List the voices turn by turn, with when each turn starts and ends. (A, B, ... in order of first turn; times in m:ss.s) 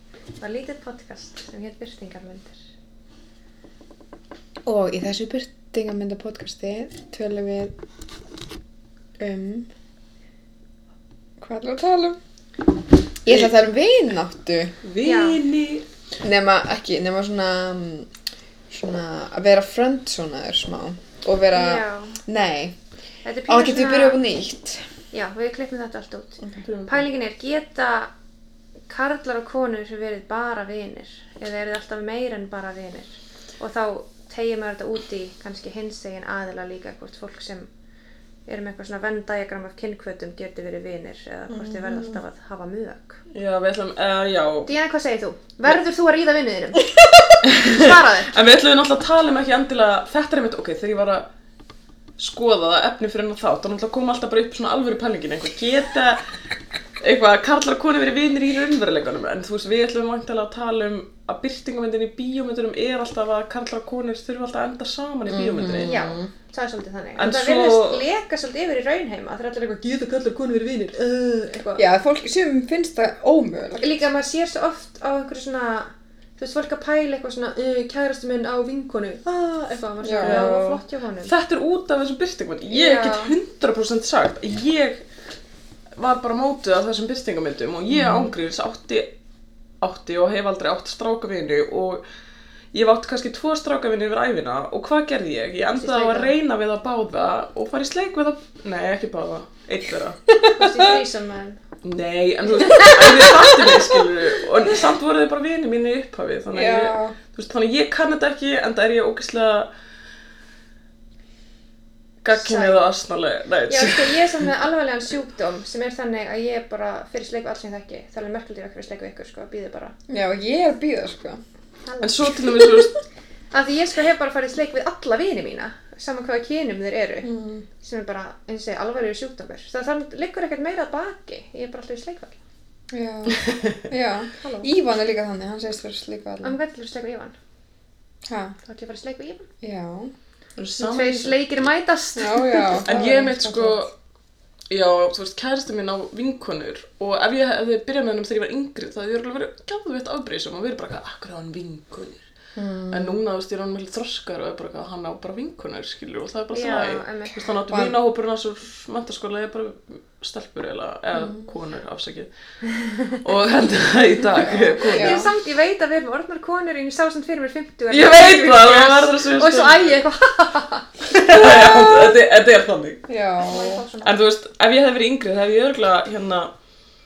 0:00.4-0:02.6 A
0:04.6-0:07.7 B
0:09.2-0:09.7 B
0:11.4-0:12.2 B
0:13.2-0:14.8 B
0:14.8-0:15.8 C
0:15.0-0:15.4 A
0:16.2-0:18.1 B
0:18.7-0:22.7 B
0:21.5-0:22.2 A
0:23.2-0:24.2 A
0:23.5-0:24.9 B
0:25.1-0:28.1 A
0:26.6-0:27.1 C
0:28.9-0:37.7 A
0:38.4-0:43.2 A
0:41.5-0:42.2 B
0:43.3-0:44.7 C
0:44.6-0:46.9 A
0:47.4-0:48.3 A
0:47.4-0:51.3 C
0:52.2-0:56.2 C
0:57.0-1:06.0 C
1:05.3-1:06.3 B
1:05.8-1:11.8 A
1:07.2-1:08.0 C
1:11.8-1:14.1 B
1:13.8-1:21.3 A
1:20.0-1:20.6 B
1:20.2-1:25.0 C
1:22.7-1:23.3 A
1:26.0-1:29.1 C
1:27.9-1:28.3 B
1:29.8-1:32.0 C
1:32.7-1:40.2 C
1:35.8-1:36.3 A
1:40.3-1:40.9 B
1:40.5-1:41.6 A
1:41.8-1:49.7 C
1:42.7-1:44.0 A
1:46.5-1:47.2 B
1:52.2-1:54.5 C
1:52.3-1:52.9 A
1:53.7-1:59.9 A
2:00.1-2:01.4 B
2:01.9-2:02.9 A
2:02.0-2:02.9 C
2:03.5-2:12.4 A
2:07.2-2:07.7 B
2:12.9-2:16.6 B
2:14.4-2:14.7 A
2:16.4-2:17.3 A
2:18.3-2:18.6 B
2:18.6-2:19.5 A
2:19.6-2:20.1 B
2:20.6-2:21.4 C
2:20.8-2:23.1 A
2:22.2-2:23.9 B
2:22.8-2:23.9 C
2:24.7-2:32.2 C
2:32.6-2:33.2 B
2:32.9-2:42.3 C
2:36.5-2:37.3 A
2:37.7-2:38.0 B
2:41.2-2:41.4 B
2:42.8-2:43.2 A
2:43.1-2:45.2 C
2:44.4-2:45.3 B
2:44.8-2:50.9 A
2:47.9-2:50.0 C
2:51.1-2:53.0 C
2:51.3-2:52.2 B
2:53.1-2:53.8 B
2:53.4-2:54.2 A
2:54.0-2:56.5 C